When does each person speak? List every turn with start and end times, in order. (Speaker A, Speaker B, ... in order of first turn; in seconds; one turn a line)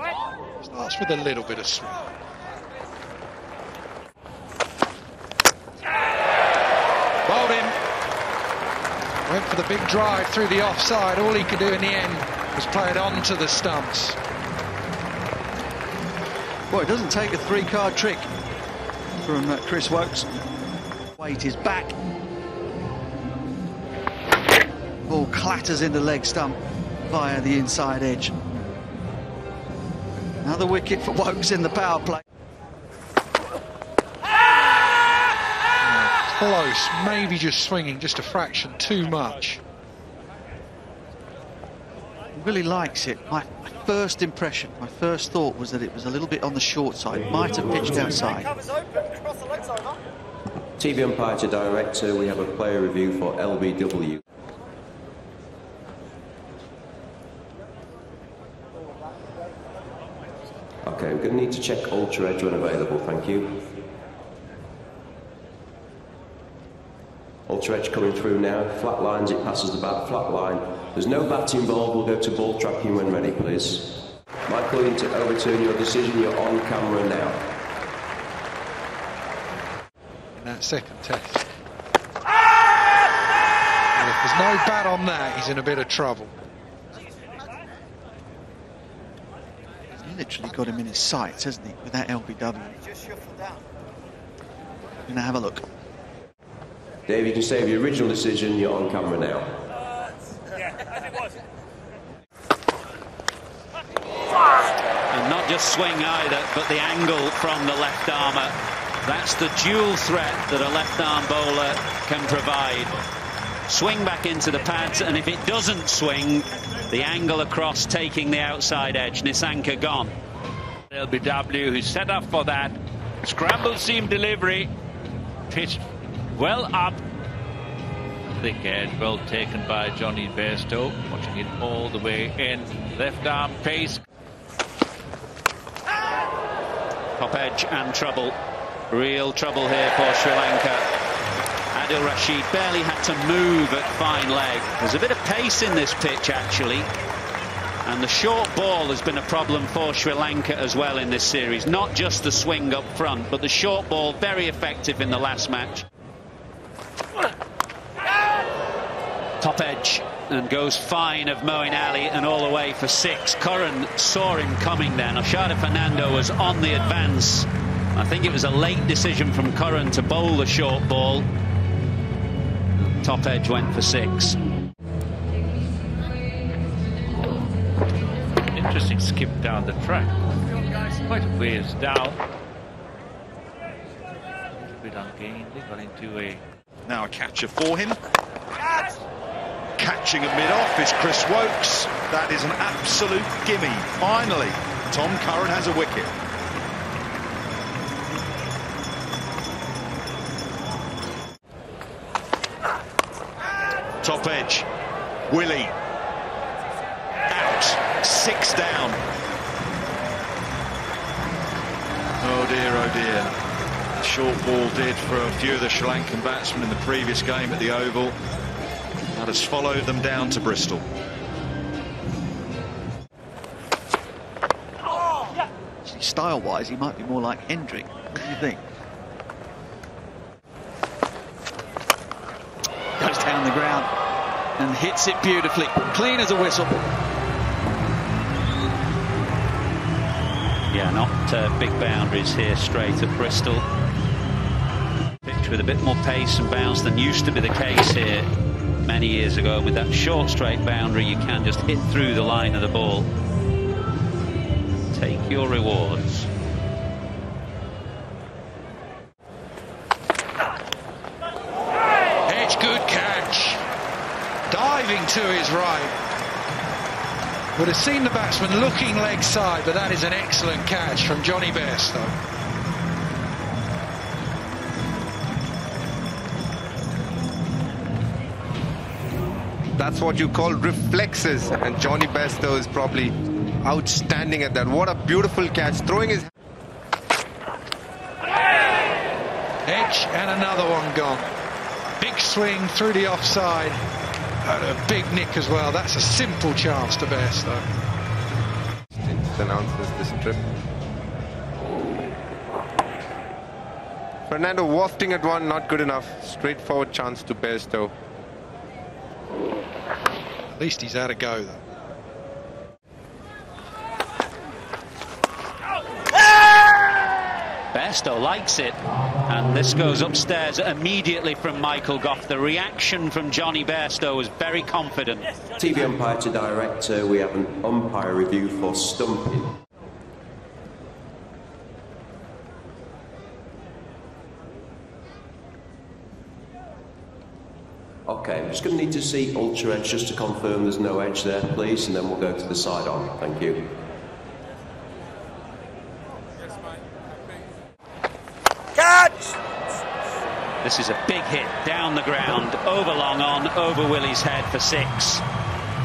Speaker A: 0.6-2.0
Speaker A: 7.3-7.8
Speaker A: 9.3-14.2
Speaker B: 16.7-18.3
Speaker B: 19.2-20.3
Speaker B: 21.2-21.9
Speaker B: 25.1-26.6
Speaker B: 27.1-28.4
Speaker B: 30.4-32.2
Speaker A: 35.8-39.6
Speaker B: 42.4-48.5
Speaker C: 50.8-54.2
Speaker C: 60.8-63.6
Speaker C: 67.5-73.9
Speaker C: 74.5-77.4
Speaker A: 80.4-81.5
Speaker A: 84.0-86.3
Speaker B: 90.0-92.9
Speaker B: 95.1-95.6
Speaker C: 97.1-99.5
Speaker D: 105.1-112.9
Speaker D: 113.7-120.1
Speaker E: 120.9-124.7
Speaker E: 125.5-125.8
Speaker E: 126.3-127.0
Speaker E: 128.4-134.0
Speaker D: 137.2-138.3
Speaker D: 138.9-140.8
Speaker D: 141.7-146.9
Speaker D: 147.8-155.8
Speaker D: 159.4-171.3
Speaker D: 172.8-174.4
Speaker E: 178.5-180.1
Speaker E: 180.7-182.2
Speaker E: 184.6-186.4
Speaker F: 186.9-188.0
Speaker F: 189.8-196.1
Speaker F: 204.0-204.7
Speaker F: 205.3-205.7
Speaker F: 207.3-209.0
Speaker F: 212.2-213.3
Speaker F: 214.0-218.2
Speaker F: 219.1-220.9
Speaker B: 225.8-228.6
Speaker B: 233.0-233.9
Speaker B: 234.6-236.8
Speaker D: 240.7-243.7
Speaker D: 245.2-248.3
Speaker D: 248.8-253.1
Speaker D: 254.9-256.3
Speaker A: 262.3-263.6
Speaker A: 264.5-265.9
Speaker A: 267.6-272.1
Speaker G: 279.8-286.3
Speaker A: 289.7-291.3
Speaker A: 292.0-293.8
Speaker A: 294.4-297.6
Speaker G: 299.0-300.4
Speaker G: 304.3-307.9
Speaker A: 310.5-311.6
Speaker D: 317.7-325.3
Speaker C: 325.6-329.5
Speaker C: 338.1-343.7
Speaker D: 350.6-355.2